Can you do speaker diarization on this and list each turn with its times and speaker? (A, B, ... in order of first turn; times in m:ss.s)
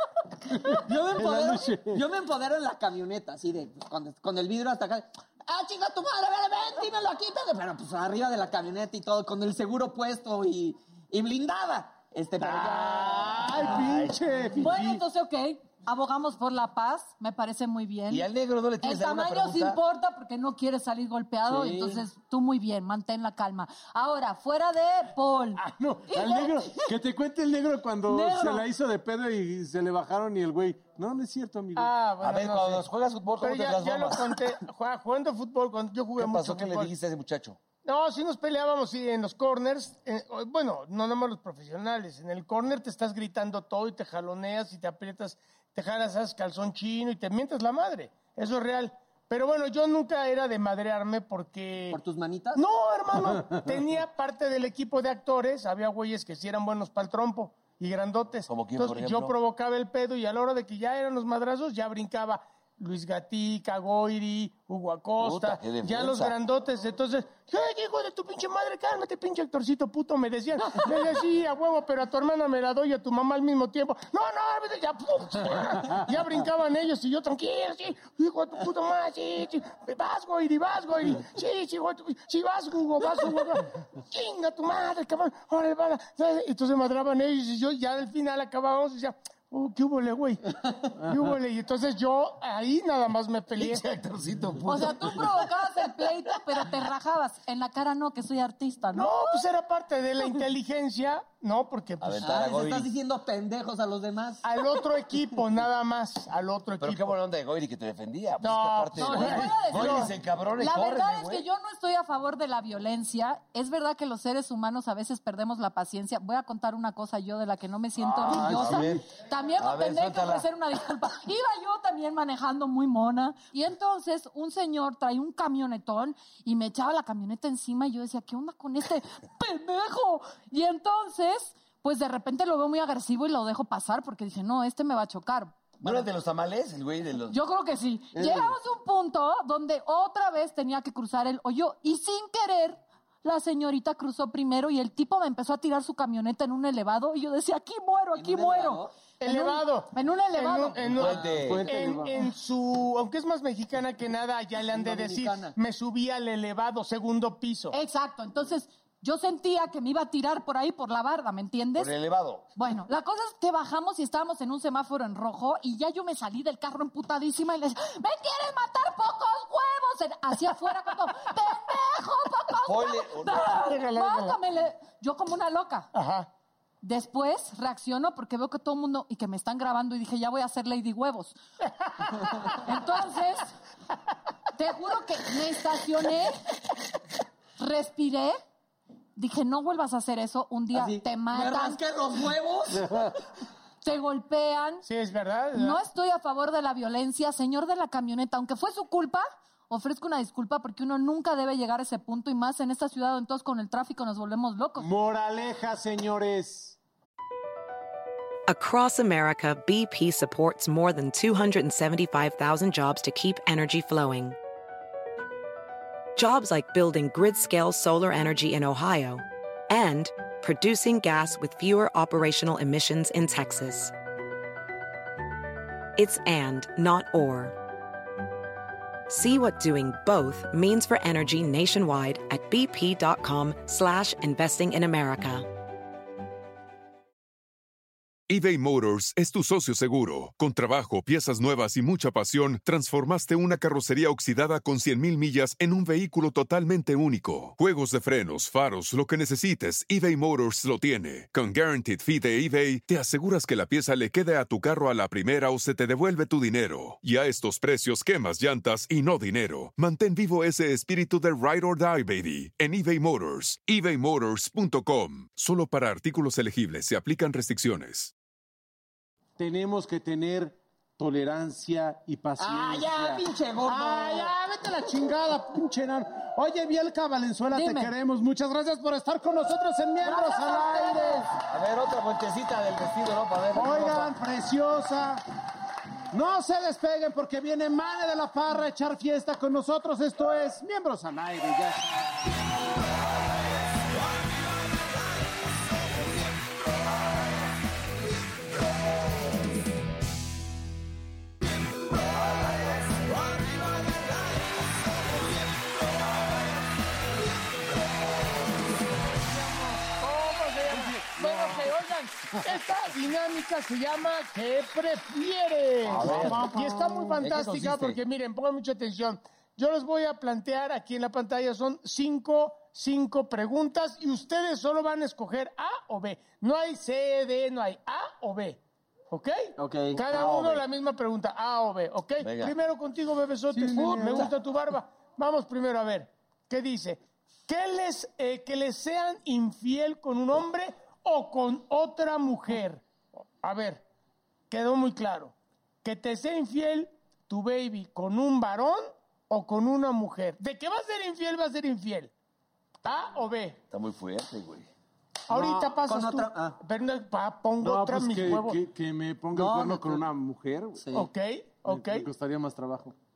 0:00.5-0:13.5 A
0:00.8-0:02.0 B
0:12.4-0:15.0 B
0:13.4-0:14.2 C
0:14.6-0:18.3 D
0:18.1-0:19.8 C
0:18.8-0:26.9 D
0:21.5-0:22.0 A
0:25.6-0:32.0 B
0:28.1-0:28.7 D
0:31.8-0:32.9 E
0:32.2-0:34.4 C
0:33.4-0:36.9 E
0:36.2-0:37.6 C
0:37.8-0:52.0 E
0:51.9-0:52.6 A
0:52.6-1:30.4 E
0:58.5-0:59.3 C
1:05.2-1:06.4 C
1:31.0-1:33.8 E
1:33.6-1:35.5 C
1:34.6-1:39.4 D
1:38.9-1:42.2 E
1:42.0-1:42.9 C
1:42.2-1:44.4 A
1:44.4-1:47.2 E
1:46.8-1:51.4 C
1:48.4-1:50.1 E
1:49.0-2:16.0 D
1:58.2-1:59.0 C
1:58.3-1:59.0 B
1:59.6-2:00.5 C
2:15.8-2:17.4 C
2:17.3-2:30.8 D
2:18.2-2:18.6 B
2:28.2-2:28.9 A
2:29.2-2:37.8 E
2:30.9-2:31.7 C
2:31.3-2:32.2 B
2:34.7-2:35.6 A
2:37.7-2:41.9 D
2:41.8-2:42.4 C
2:42.6-2:55.9 D
2:52.6-2:53.5 C
2:53.6-2:54.4 E
2:55.9-2:56.3 E
2:56.8-3:01.4 D
3:02.5-3:03.5 D
3:04.6-3:06.4 D
3:07.6-3:08.4 D
3:09.2-3:11.8 D
3:10.7-3:13.1 A
3:13.8-3:14.9 D
3:14.9-3:15.8 E
3:15.5-3:24.9 D
3:24.8-3:26.8 B
3:28.5-3:34.4 F
3:36.2-3:43.9 F
3:46.0-3:47.6 F
3:49.1-3:55.5 F
3:58.3-4:28.1 G
4:29.4-4:41.3 B
4:32.4-4:34.4 A
4:37.5-4:37.9 D
4:40.0-4:41.2 D
4:41.5-4:44.2 C
4:43.5-4:45.2 B
4:46.1-4:52.2 B
5:09.2-5:42.8 E
5:10.7-5:11.7 B
5:15.8-5:16.6 C
5:16.0-5:17.2 B
5:17.2-5:18.0 C
5:29.6-5:30.0 A
5:30.1-5:30.6 C
5:32.2-5:32.6 C
5:33.5-5:34.3 B
5:43.4-5:43.8 E
5:44.5-5:52.1 E
5:52.8-5:53.6 E
5:53.7-5:54.7 C
5:55.3-5:58.6 E
5:55.4-5:55.6 B
5:55.4-5:56.6 A
5:57.6-6:00.9 B
5:59.4-6:00.0 A
6:00.8-6:01.1 A
6:00.9-6:02.1 E
6:01.7-6:03.0 B